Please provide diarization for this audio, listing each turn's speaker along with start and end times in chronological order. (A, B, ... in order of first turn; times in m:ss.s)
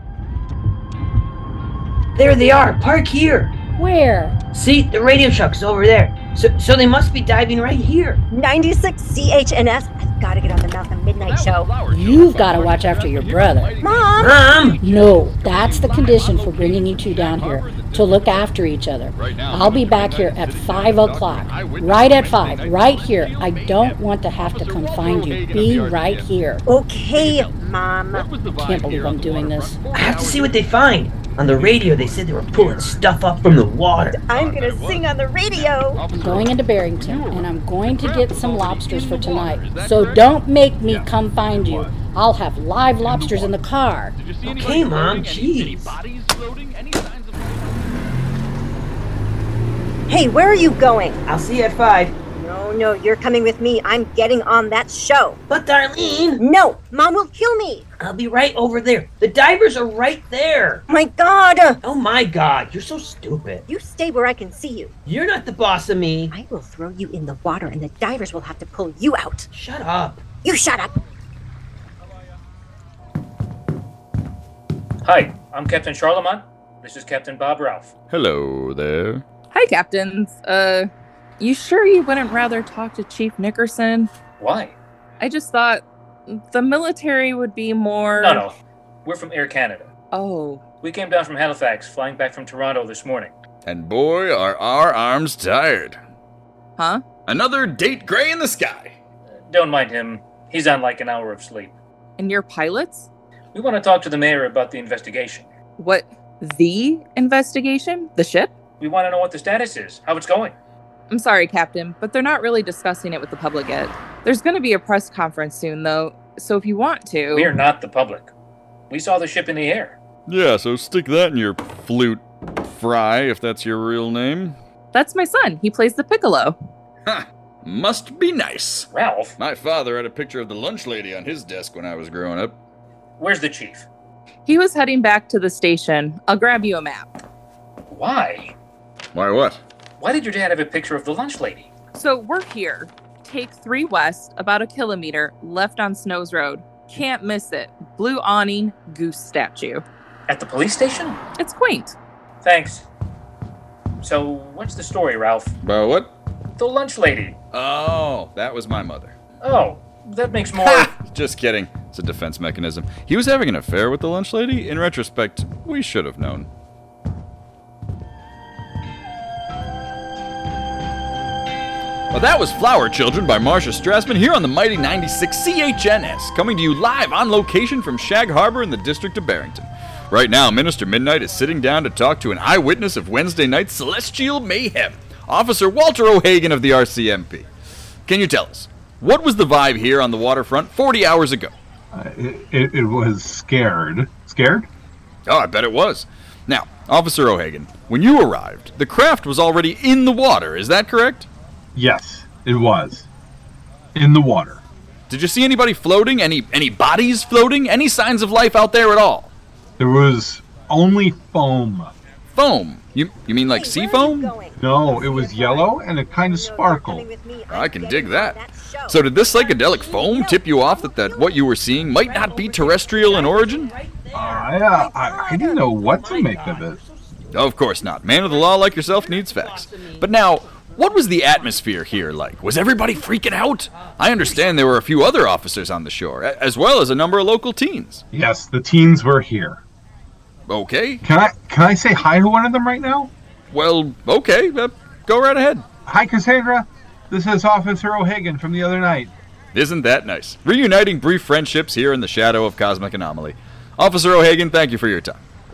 0:02.2-0:03.6 A
0:03.8-0:04.3 B
0:04.5-0:08.2 A
0:08.3-0:11.8 C
0:11.2-0:18.4 D
0:11.8-0:13.8 B
0:13.8-0:14.5 C
0:14.2-0:14.8 A
0:14.8-0:26.6 B
0:19.1-0:26.3 D
0:26.6-0:28.3 C
0:27.0-0:33.0 D
0:28.6-0:29.8 B
0:29.9-0:34.2 A
0:34.1-0:36.0 C
0:34.3-0:40.4 D
0:36.1-0:44.2 B
0:40.8-0:41.9 E
0:43.0-0:43.5 E
0:44.2-0:47.8 D
0:44.4-0:46.0 A
0:50.1-0:51.2 C
0:51.3-0:52.2 A
0:52.4-0:55.4 C
0:55.5-0:56.4 A
0:56.4-0:57.9 C
0:58.0-1:00.8 A
1:00.9-1:01.8 C
1:01.8-1:03.6 A
1:03.7-1:04.9 C
1:05.0-1:06.3 A
1:06.3-1:09.5 C
1:09.5-1:10.2 A
1:10.4-1:11.0 C
1:15.0-1:17.9 F
1:18.1-1:19.2 D
1:19.5-1:24.1 G
1:24.4-1:24.8 F
1:25.2-1:28.4 G
1:28.2-1:29.9 F
1:30.1-1:30.6 G
1:30.8-1:33.3 F
1:33.6-1:36.0 D
1:36.8-1:37.0 G
1:37.3-1:38.9 D
1:39.5-1:41.7 F
1:42.2-1:43.1 G
1:43.5-1:45.5 F
1:45.8-1:48.5 G
1:48.8-1:50.5 F
1:51.1-1:57.5 G
1:57.3-1:58.3 F
1:58.9-2:00.0 F
2:00.3-2:04.6 D
2:04.9-2:06.6 G
2:07.0-2:12.6 D
2:08.9-2:09.3 F
2:13.2-2:13.9 F
2:14.4-2:17.1 G
2:17.9-2:18.5 F
2:19.1-2:19.6 D
2:20.0-2:21.7 F
2:21.9-2:29.8 G
2:30.3-2:31.2 F
2:31.4-2:31.9 G
2:32.4-2:32.8 F
2:34.0-2:35.5 F
2:35.6-2:36.1 D
2:36.6-2:37.4 F
2:37.5-2:39.1 D
2:39.4-2:40.9 F
2:40.6-2:46.5 D
2:52.1-3:07.4 D
3:08.0-3:11.5 D
3:11.9-3:14.7 E
3:15.2-3:21.3 D
3:21.7-3:23.1 E
3:23.9-3:24.6 E
3:25.1-3:29.3 D
3:29.8-3:31.9 E
3:32.3-3:34.4 D
3:33.5-3:41.4 C
3:34.6-3:37.1 E
3:37.5-3:43.7 D
3:41.7-3:47.4 A
3:44.1-3:46.8 E
3:44.7-3:45.6 C
3:47.3-3:58.0 D
3:48.1-3:50.1 A
3:53.7-3:54.6 A
3:58.1-3:59.6 E
4:00.5-4:01.0 D
4:01.0-4:03.1 E
4:03.5-4:05.6 D
4:05.9-4:09.1 E
4:09.5-4:15.2 D